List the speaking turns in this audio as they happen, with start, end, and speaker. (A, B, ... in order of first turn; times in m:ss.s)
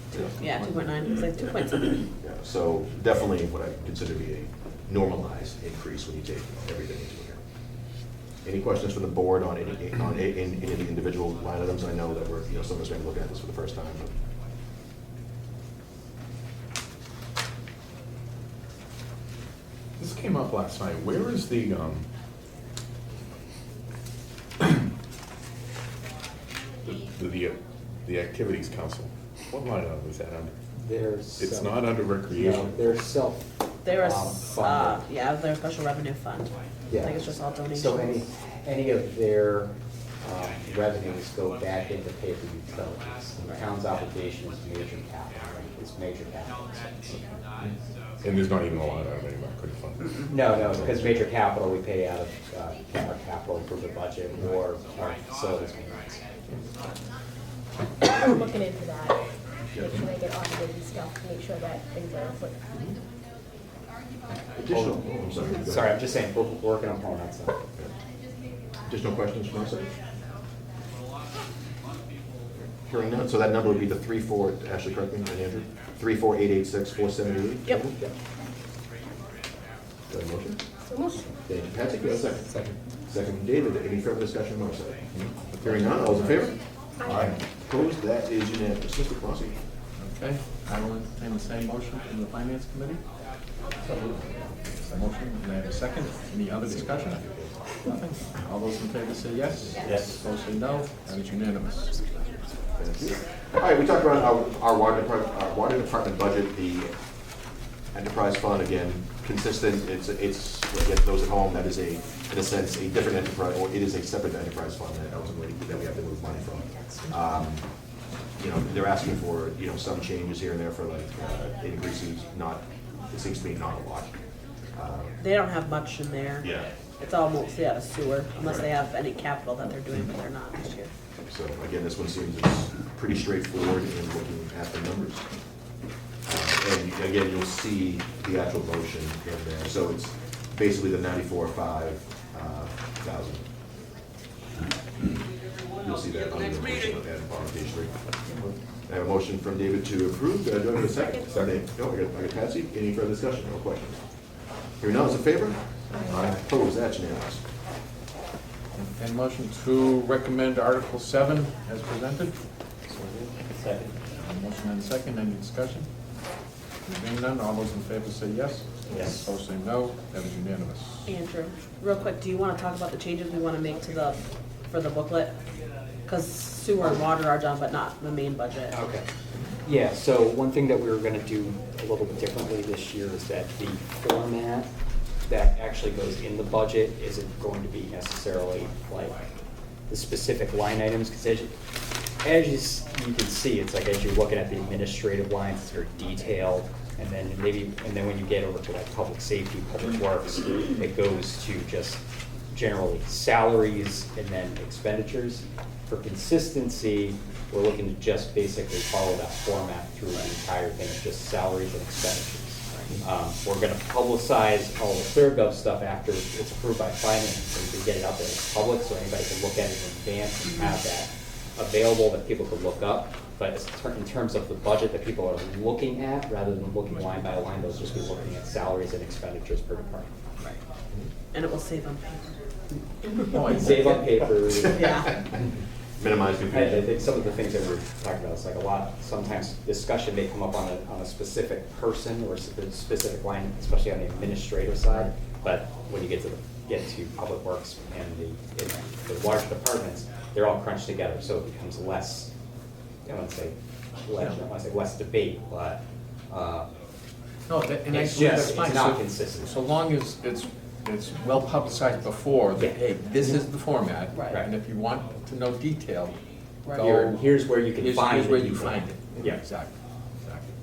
0:00.4-0:02.1 A
0:02.2-0:07.4 B
0:08.4-0:14.1 B
0:20.0-0:22.1 C
0:26.8-0:30.5 C
0:30.8-0:35.0 D
0:31.4-0:33.0 C
0:33.8-0:38.2 A
0:36.9-0:47.2 D
0:47.2-0:51.2 C
0:50.3-0:56.2 D
0:58.0-0:59.2 E
0:59.8-1:00.0 B
0:59.8-1:02.6 E
1:04.6-1:06.0 B
1:04.7-1:07.6 D
1:08.9-1:09.9 B
1:12.8-1:17.9 B
1:20.1-1:20.6 B
1:20.9-1:21.3 E
1:21.4-1:22.5 B
1:23.1-1:25.1 B
1:25.5-1:26.5 F
1:25.6-1:26.6 B
1:27.0-1:27.3 E
1:27.1-1:27.3 C
1:27.1-1:29.6 B
1:30.0-1:33.0 F
1:34.8-1:37.3 F
1:37.8-1:42.0 F
1:42.8-1:46.9 B
1:47.9-1:57.7 B
1:58.4-2:04.1 B
2:04.8-2:05.1 B
2:05.2-2:06.5 A
2:06.4-2:06.7 B
2:07.0-2:10.9 A
2:08.4-2:08.7 B
2:11.3-2:15.2 B
2:16.2-2:23.4 B
2:25.8-2:27.9 B
2:28.9-2:34.0 B
2:31.3-2:31.6 C
2:34.8-2:37.4 B
2:35.9-2:36.2 E
2:38.8-2:42.3 F
2:42.9-2:44.0 D
2:44.1-2:45.9 F
2:46.8-2:51.1 F
2:48.9-2:49.3 D
2:51.1-2:54.2 A
2:54.7-2:55.3 A
2:56.1-2:58.8 A
2:58.7-2:59.0 D
2:59.6-3:04.7 D
3:05.3-3:09.2 D
3:09.9-3:11.5 D
3:12.2-3:50.1 D
3:51.3-3:52.3 A
3:53.0-3:54.2 F
3:53.3-3:55.3 D
3:54.6-3:55.5 B
3:54.8-3:55.1 A
3:56.0-3:56.9 B
3:56.5-4:12.3 D
4:13.1-4:16.7 D
4:17.5-4:26.1 F
4:17.9-4:19.5 D
4:26.8-4:27.2 F
4:26.8-4:29.4 D
4:27.8-4:30.5 F